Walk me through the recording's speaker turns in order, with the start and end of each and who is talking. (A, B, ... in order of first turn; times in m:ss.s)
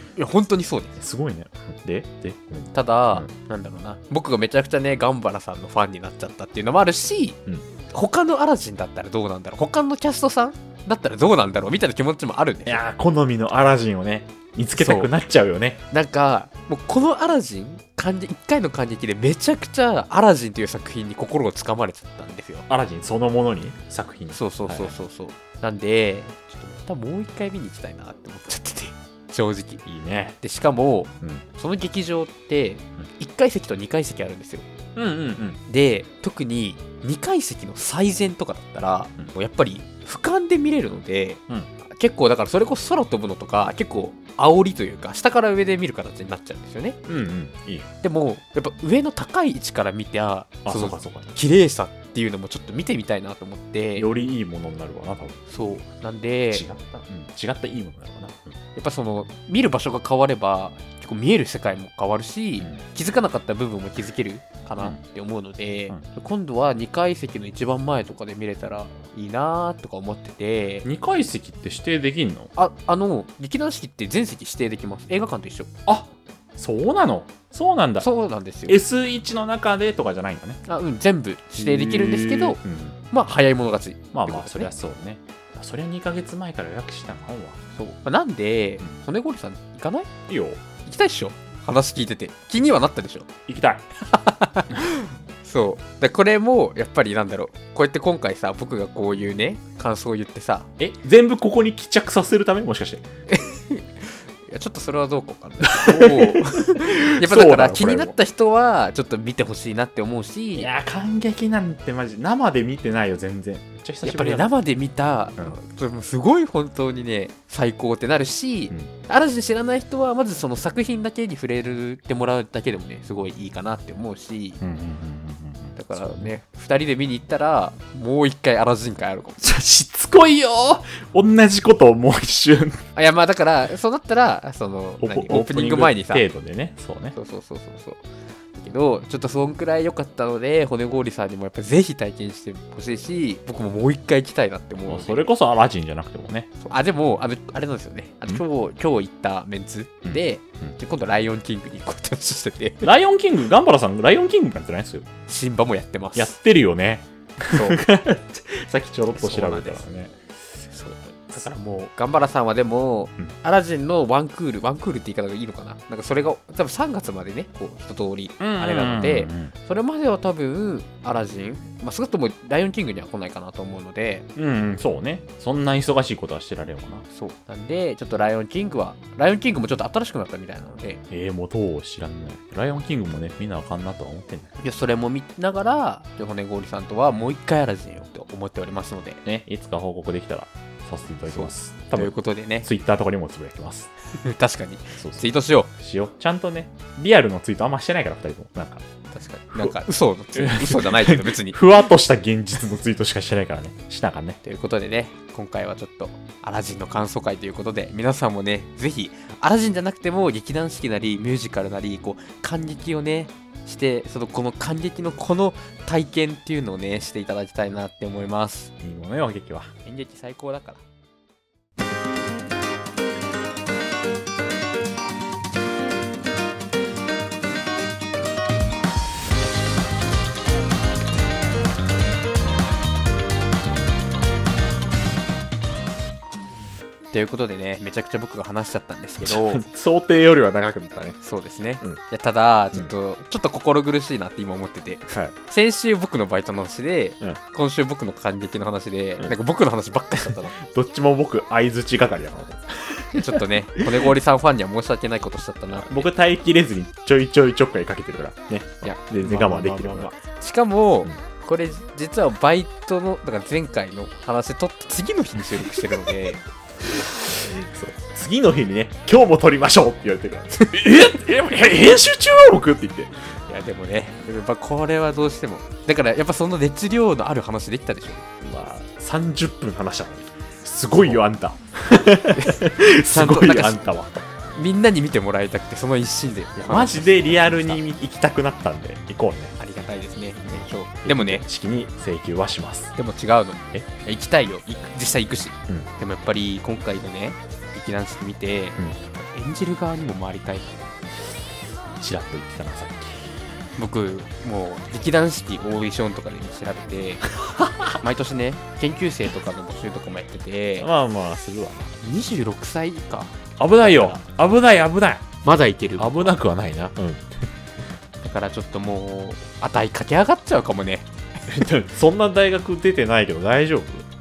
0:00.2-0:01.0 A
0:01.0-0:03.3 B
0:02.7-0:07.4 A
0:07.9-0:12.8 A
0:12.6-0:15.8 B
0:14.7-0:15.1 A
0:15.9-0:22.7 A
0:22.7-0:24.9 B
0:24.3-0:29.8 A
0:29.8-0:30.4 B
0:30.4-0:34.6 A
0:34.9-0:35.6 B
0:35.7-0:41.4 A
0:42.0-0:47.0 A
0:47.1-0:47.9 B
0:48.0-0:54.1 A
0:50.6-0:51.3 B
0:53.9-0:55.4 B
0:55.5-0:56.6 A
0:56.5-0:58.6 B
0:58.8-1:10.8 A
1:10.8-1:12.5 B
1:12.6-1:15.7 A
1:15.9-1:18.1 B
1:18.0-1:18.8 A
1:18.7-1:20.6 B
1:20.6-1:22.6 A
1:21.6-1:23.0 B
1:23.1-1:24.7 A
1:24.1-1:27.6 B
1:27.8-1:30.1 A
1:30.3-1:30.6 B
1:30.8-1:33.3 A
1:33.5-1:33.8 B
1:34.1-1:40.7 A
1:40.8-1:43.0 B
1:43.3-1:50.7 A
1:45.6-1:48.1 B
1:50.5-1:54.5 B
1:54.0-2:04.6 A
2:04.6-2:06.3 B
2:05.8-2:09.4 A
2:09.4-2:12.8 B
2:12.9-2:16.2 A
2:15.0-2:17.2 B
2:17.2-2:18.0 A
2:18.6-2:25.2 A
2:24.9-2:26.5 B
2:26.6-2:32.9 A
2:30.0-2:30.7 B
2:32.8-2:35.1 B
2:35.3-2:36.3 A
2:36.2-2:40.2 B
2:37.5-2:37.8 A
2:39.1-2:39.8 A
2:40.7-2:54.3 A
2:48.4-2:49.5 B
2:54.4-2:57.0 B
2:57.1-3:01.0 A
3:01.1-3:04.5 B
3:04.6-3:09.2 A
3:09.2-3:12.1 B
3:11.3-3:12.7 A
3:12.6-3:13.9 B
3:14.2-3:15.7 A
3:15.0-3:18.8 B
3:19.1-3:21.6 A
3:19.5-3:19.8 B
3:20.3-3:24.4 B
3:24.4-3:38.7 A
3:38.8-3:39.7 B
3:39.8-3:40.8 A
3:57.1-3:59.6 A
3:59.2-4:01.2 B
4:01.2-4:10.6 A
4:05.1-4:05.3 B
4:10.6-4:14.0 B
4:13.1-4:16.1 A
4:15.7-4:20.1 B
4:18.8-4:26.4 A
4:25.6-4:25.9 B
4:27.1-4:33.1 B
4:33.5-4:38.2 A
4:38.4-4:44.2 B
4:42.3-4:43.9 A
4:44.5-4:47.8 A
4:46.6-4:49.6 B
4:49.6-4:51.4 A
4:51.0-4:52.9 B
4:53.0-5:00.8 A
5:02.0-5:03.2 B
5:03.8-5:07.3 A
5:07.4-5:07.9 B
5:08.0-5:10.9 A
5:10.8-5:11.9 B
5:12.0-5:14.2 A
5:13.6-5:15.3 B
5:15.4-5:16.3 A
5:16.0-5:17.3 B
5:18.2-5:21.1 A
5:21.5-5:24.1 B